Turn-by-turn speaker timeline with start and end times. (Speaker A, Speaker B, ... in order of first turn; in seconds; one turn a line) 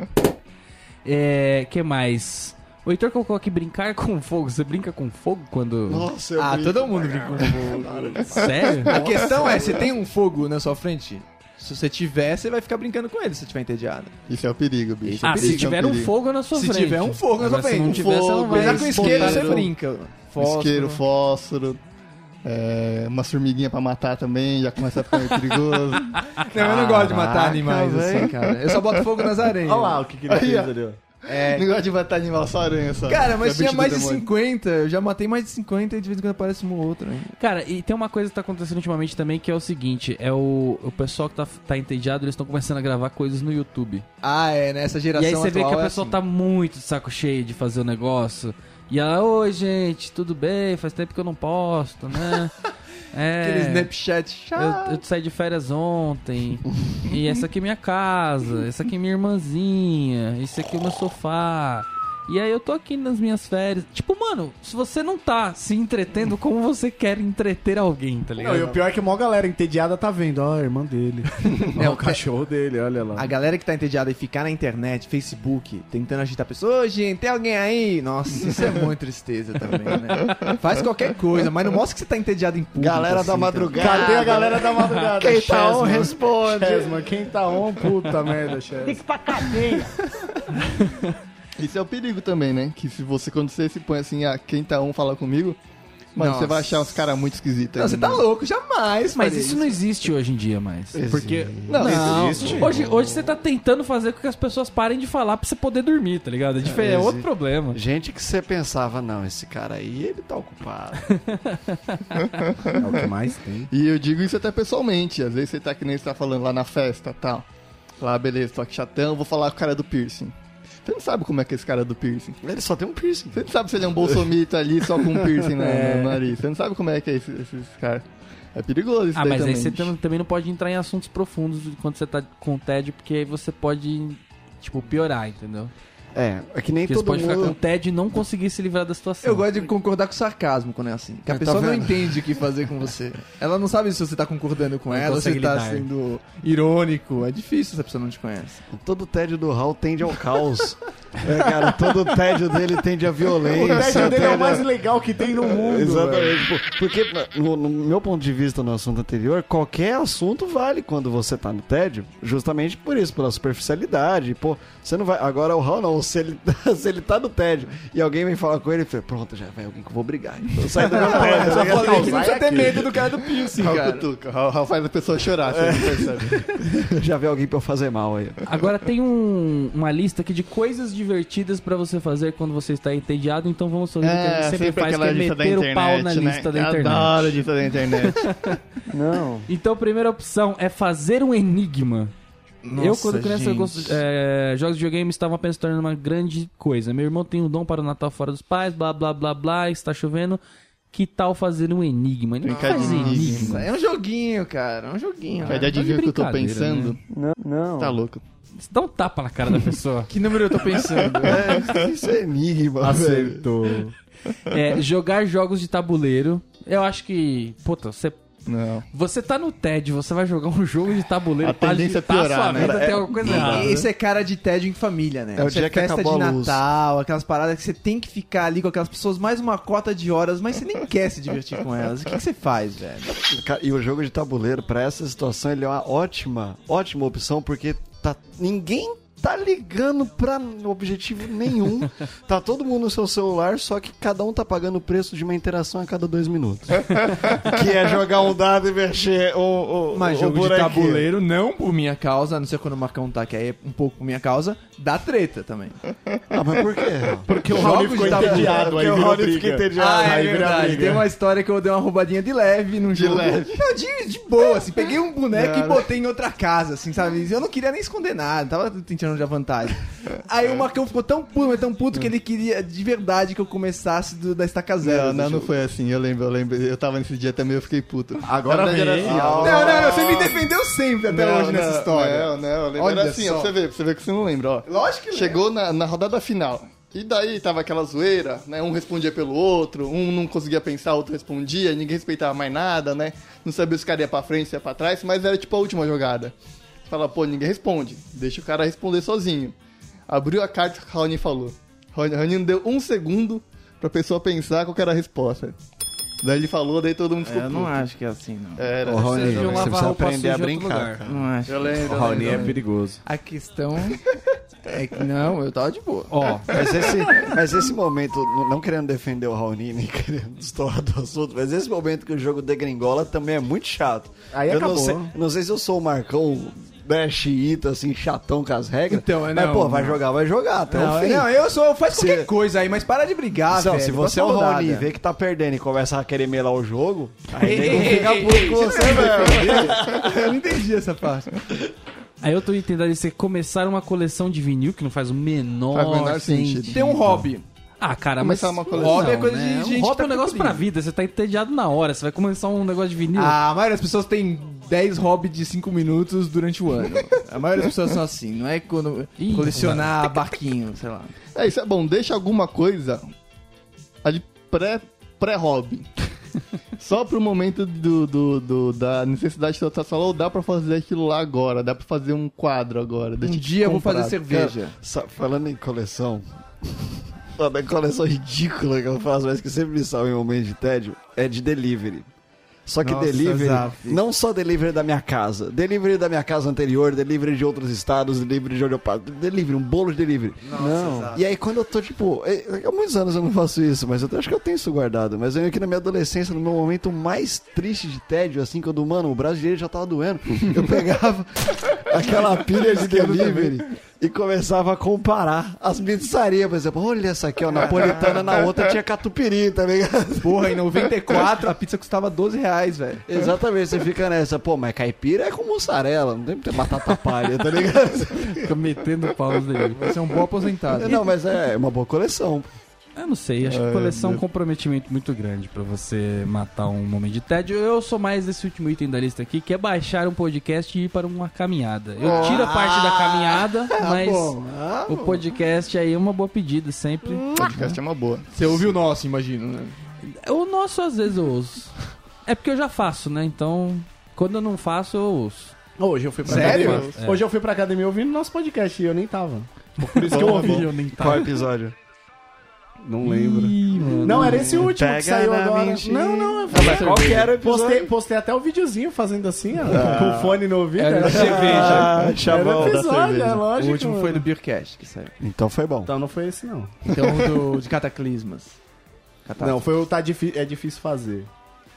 Speaker A: 1.1-6.1
Speaker B: 5.9-9.8
Speaker C: 6.4-7.9
Speaker D: 7.6-9.7
Speaker A: 8.3-9.0
Speaker C: 8.8-14.1
Speaker D: 14.3-16.1
Speaker E: 15.1-15.5
Speaker A: 15.2-19.6
Speaker C: 16.5-21.0
Speaker D: 17.9-19.7
Speaker E: 19.0-19.6
Speaker D: 20.4-21.8
Speaker D: 22.4-26.3
Speaker C: 26.4-30.0
Speaker B: 26.5-28.4
Speaker E: 29.6-31.0
Speaker D: 30.3-30.7
Speaker C: 31.3-31.7
Speaker D: 31.3-34.3
Speaker C: 33.1-37.4
Speaker A: 37.4-44.0
Speaker C: 44.2-46.2
Speaker A: 45.1-52.5
Speaker A: 53.1-53.9
Speaker C: 53.4-55.0
Speaker A: 54.5-68.8
Speaker E: 68.4-73.3
Speaker C: 71.7-72.2
Speaker C: 73.2-84.3
Speaker B: 82.8-87.0
Speaker E: 83.7-89.6
Speaker A: 84.8-85.1
Speaker F: 89.1-89.9
Speaker A: 90.6-91.1
Speaker D: 91.6-95.6
Speaker D: 96.1-98.2
Speaker C: 96.2-97.0
Speaker C: 97.8-99.8
Speaker A: 99.2-107.8
Speaker B: 100.9-103.3
Speaker D: 101.7-102.2
Speaker E: 101.8-102.8
Speaker B: 106.6-111.0
Speaker A: 111.0-112.4
Speaker D: 112.2-113.1
Speaker E: 112.8-113.7
Speaker D: 113.7-117.5
Speaker D: 118.0-120.3
Speaker D: 120.8-122.4
Speaker B: 122.4-124.3
Speaker D: 123.3-129.9
Speaker E: 125.3-126.2
Speaker A: 129.1-135.7
Speaker B: 136.1-137.6
Speaker A: 136.9-139.7
Speaker C: 139.2-148.6
Speaker B: 141.3-142.2
Speaker A: 144.9-145.9
Speaker B: 148.7-154.7
Speaker E: 153.5-156.4
Speaker D: 153.7-154.4
Speaker B: 155.4-172.8
Speaker C: 170.8-174.1
Speaker E: 171.0-172.9
Speaker D: 173.6-176.4
Speaker B: 175.4-178.4
Speaker A: 178.5-187.4
Speaker D: 184.0-188.3
Speaker A: 188.0-188.6
Speaker F: 188.9-189.5
Speaker A: 189.5-192.1
Speaker C: 192.6-194.0
Speaker A: 192.7-200.4
Speaker A: 200.9-203.7
Speaker C: 202.4-205.7
Speaker D: 202.4-203.6
Speaker A: 205.4-206.9
Speaker D: 205.4-207.0
Speaker F: 207.1-208.0
Speaker D: 207.8-208.2
Speaker A: 208.6-210.1
Speaker C: 210.1-211.6
Speaker D: 211.0-211.9
Speaker B: 211.2-213.5
Speaker E: 212.8-213.9
Speaker A: 214.5-218.2
Speaker D: 218.4-218.9
Speaker A: 218.9-223.8
Speaker D: 221.4-222.9
Speaker B: 222.5-223.9
Speaker C: 223.3-233.1
Speaker B: 225.4-226.6
Speaker B: 233.1-251.1
Speaker C: 249.9-255.8
Speaker B: 256.3-261.0
Speaker E: 257.2-261.1
Speaker C: 257.5-258.7
Speaker C: 259.7-275.5
Speaker D: 262.9-263.6
Speaker D: 265.3-265.8
Speaker D: 274.8-280.5
Speaker E: 278.2-279.6
Speaker B: 279.0-279.9
Speaker C: 279.4-283.5
Speaker D: 281.1-296.3
Speaker C: 284.7-285.4
Speaker D: 296.9-299.5
Speaker D: 300.1-305.6
Speaker D: 306.2-307.8
Speaker C: 307.2-308.7
Speaker D: 308.6-309.9
Speaker B: 308.9-311.2
Speaker A: 309.0-311.0
Speaker C: 311.1-312.6
Speaker D: 311.5-312.6
Speaker E: 311.9-313.0
Speaker C: 313.1-314.1
Speaker C: 314.7-316.1
Speaker A: 316.1-316.5
Speaker D: 316.5-317.3
Speaker B: 316.5-331.3
Speaker E: 324.3-325.1
Speaker C: 328.9-330.0
Speaker C: 330.7-334.9
Speaker B: 331.9-332.3
Speaker B: 333.5-340.1
Speaker C: 337.4-341.3
Speaker D: 337.9-340.0
Speaker A: 342.2-347.3
Speaker D: 345.7-346.8
Speaker C: 346.7-347.4
Speaker A: 347.8-353.4
Speaker D: 348.2-349.2
Speaker C: 348.7-350.6
Speaker C: 353.1-361.1
Speaker A: 359.2-359.9
Speaker D: 361.4-363.0
Speaker D: 364.0-365.9
Speaker D: 366.8-374.6
Speaker C: 373.2-374.8
Speaker B: 374.8-382.1
Speaker B: 382.7-410.6
Speaker C: 382.8-384.0
Speaker C: 390.4-391.2
Speaker F: 390.5-391.2
Speaker C: 402.7-403.5
Speaker C: 410.2-413.1
Speaker B: 413.1-418.5
Speaker A: 418.4-419.8
Speaker C: 419.7-421.0
Speaker B: 420.7-422.5
Speaker A: 422.9-437.4
Speaker D: 423.4-424.2
Speaker D: 432.0-432.4
Speaker C: 432.0-435.1
Speaker D: 437.4-438.7
Speaker C: 437.4-437.7
Speaker C: 438.3-439.8
Speaker A: 440.0-445.6
Speaker E: 445.8-450.7
Speaker C: 446.2-446.9
Speaker A: 446.2-447.2
Speaker D: 446.3-447.0
Speaker A: 450.1-451.3
Speaker D: 450.1-450.6
Speaker B: 450.2-451.8
Speaker E: 452.8-464.2
Speaker A: 453.0-454.7
Speaker B: 454.1-457.9
Speaker C: 456.5-457.3
Speaker B: 459.6-460.4
Speaker A: 460.8-461.9
Speaker B: 461.0-462.9
Speaker D: 461.8-463.5
Speaker C: 463.6-465.1
Speaker B: 465.2-465.9
Speaker E: 465.9-466.7
Speaker C: 466.9-468.6
Speaker C: 469.3-469.7
Speaker E: 469.4-471.3